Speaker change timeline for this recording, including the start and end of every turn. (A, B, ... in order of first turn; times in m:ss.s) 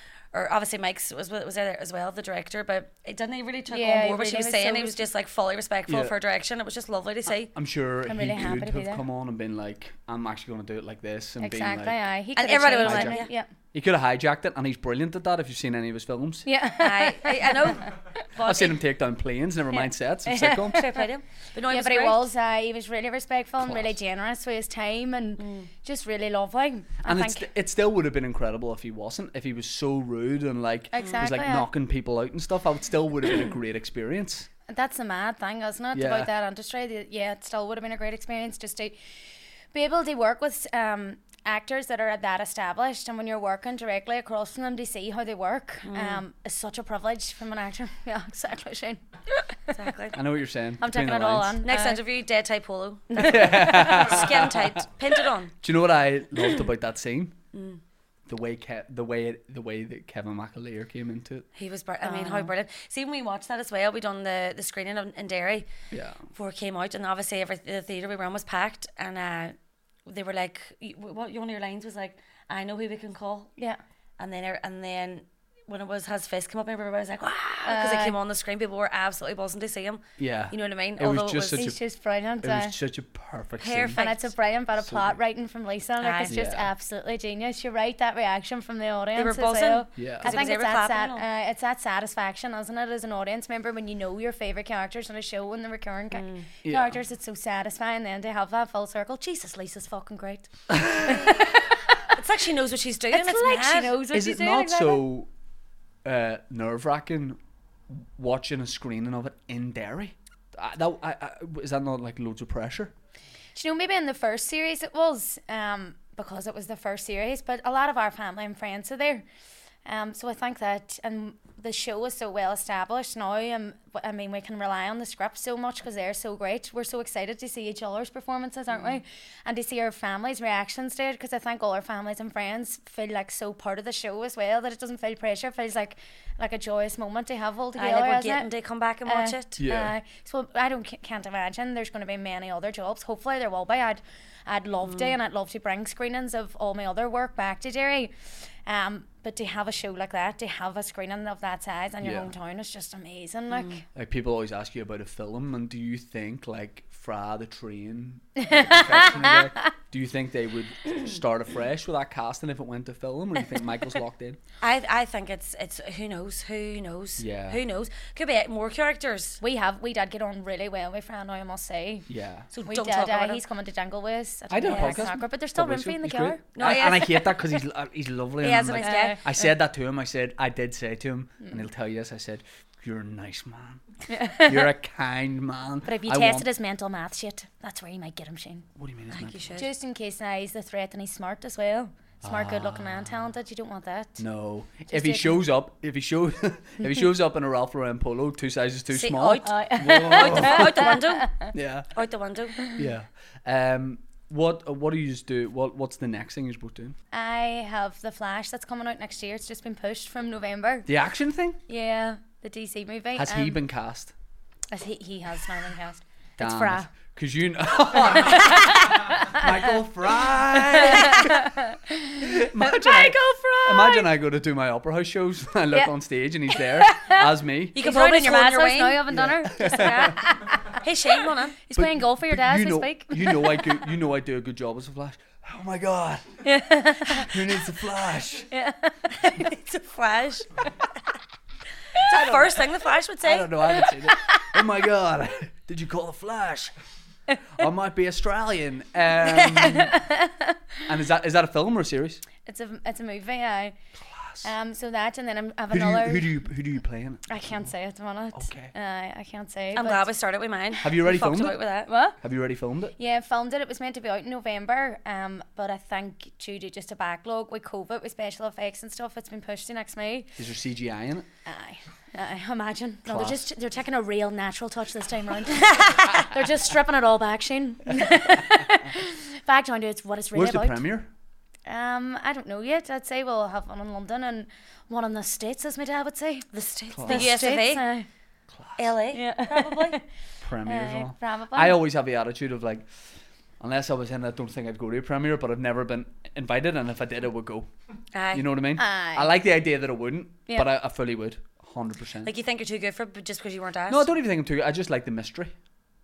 0:00.3-0:07.5 A
0:03.7-0:05.0 B
0:05.9-0:06.1 C
0:07.4-0:12.1 C
0:08.1-0:09.0 B
0:11.4-0:13.5 B
0:12.4-0:13.3 A
0:12.8-0:16.5 C
0:16.4-0:17.9 B
0:16.8-0:18.8 A
0:18.4-0:20.9 C
0:19.8-0:21.0 B
0:20.7-0:22.3 A
0:21.7-0:27.4 B
0:23.6-0:24.0 C
0:25.4-0:25.7 A
0:27.0-0:34.5 C
0:30.9-0:31.7 B
0:34.7-0:39.0 B
0:35.9-0:36.3 C
0:39.7-0:49.7 B
0:45.8-0:46.2 A
0:49.7-0:50.2 A
0:50.1-0:51.6 C
0:50.8-0:52.0 B
0:51.6-0:55.5 A
0:53.1-0:53.9 B
0:53.2-0:54.8 C
0:55.6-0:57.4 C
0:57.5-0:57.8 A
0:58.3-1:01.4 C
1:01.6-1:05.7 A
1:02.0-1:02.5 B
1:05.9-1:06.2 C
1:06.3-1:09.5 A
1:10.1-1:13.5 A
1:14.2-1:21.6 A
1:17.6-1:18.2 B
1:20.2-1:21.8 C
1:21.5-1:22.7 B
1:22.4-1:24.0 C
1:23.6-1:24.3 A
1:24.0-1:41.6 B
1:24.8-1:25.2 C
1:26.0-1:26.4 A
1:26.3-1:26.7 C
1:29.1-1:31.2 A
1:30.0-1:30.4 C
1:36.1-1:36.5 A
1:36.6-1:37.0 C
1:41.0-1:41.4 A
1:42.1-1:44.0 A
1:43.1-1:45.0 B
1:44.1-1:45.3 C
1:46.0-1:47.4 C
1:47.9-1:52.9 C
1:53.5-1:59.2 B
1:59.8-2:18.5 B
2:17.8-2:19.6 A
2:19.0-2:28.1 B
2:19.6-2:19.9 C
2:28.6-2:33.8 B
2:32.0-2:32.3 C
2:33.5-2:33.8 A
2:33.9-2:44.4 C
2:38.4-2:39.6 B
2:44.6-2:49.4 A
2:47.2-2:47.6 C
2:49.4-2:52.1 B
2:52.1-2:52.5 C
2:52.5-2:53.4 A
2:52.6-2:56.9 B
2:54.5-3:03.8 C
2:54.7-2:55.1 A
2:56.5-2:57.4 A
2:58.4-2:59.2 A
2:58.8-2:59.2 B
3:04.1-3:04.7 B
3:04.4-3:06.5 C
3:05.8-3:08.6 B
3:08.8-3:09.6 C
3:09.1-3:09.7 A
3:09.6-3:14.2 B
3:12.2-3:13.3 C
3:14.2-3:20.9 C
3:14.9-3:15.4 B
3:18.9-3:22.6 A
3:19.4-3:21.5 B
3:21.5-3:21.9 C
3:22.7-3:27.0 C
3:27.1-3:30.9 B
3:30.8-3:31.6 C
3:31.7-3:33.6 B
3:33.2-3:34.1 C
3:34.7-3:36.9 B
3:36.4-3:41.3 C
3:38.1-3:39.5 B
3:40.7-3:42.2 B
3:41.0-3:41.3 A
3:42.2-3:47.8 C
3:42.7-3:44.1 A
3:46.5-3:50.8 B
3:47.7-3:51.6 A
3:49.1-3:50.2 C
3:51.6-3:53.6 B
3:51.7-3:56.4 C
3:56.4-3:57.3 B
3:57.1-3:58.5 C
3:58.5-3:59.4 B
3:59.2-4:00.6 A
4:02.0-4:03.5 A
4:02.1-4:02.4 B
4:03.2-4:06.7 C
4:03.7-4:04.6 B
4:07.5-4:09.9 C
4:09.6-4:10.6 B
4:10.8-4:12.2 C
4:12.4-4:13.7 B
4:14.0-4:14.5 C
4:14.4-4:16.3 B
4:15.7-4:17.7 C
4:17.3-4:20.0 B
4:18.3-4:18.7 C
4:19.7-4:21.9 A
4:20.8-4:21.6 C
4:21.9-4:22.2 B
4:22.2-4:22.9 C
4:23.0-4:30.3 B
4:30.4-4:31.2 C
4:31.4-4:40.8 B
4:33.0-4:33.5 C
4:40.3-4:41.1 C
4:41.6-4:46.5 B
4:46.5-4:47.8 A
4:46.9-4:47.4 C
4:47.0-4:48.1 B
4:48.5-4:48.9 C
4:48.8-4:50.0 A
4:49.1-4:50.0 B
4:50.4-4:52.9 C
4:50.6-4:51.8 B
4:53.6-4:57.7 C
4:58.1-4:58.5 A
4:58.3-5:02.3 C
4:58.8-4:59.3 B
5:02.2-5:04.1 A
5:03.9-5:05.5 C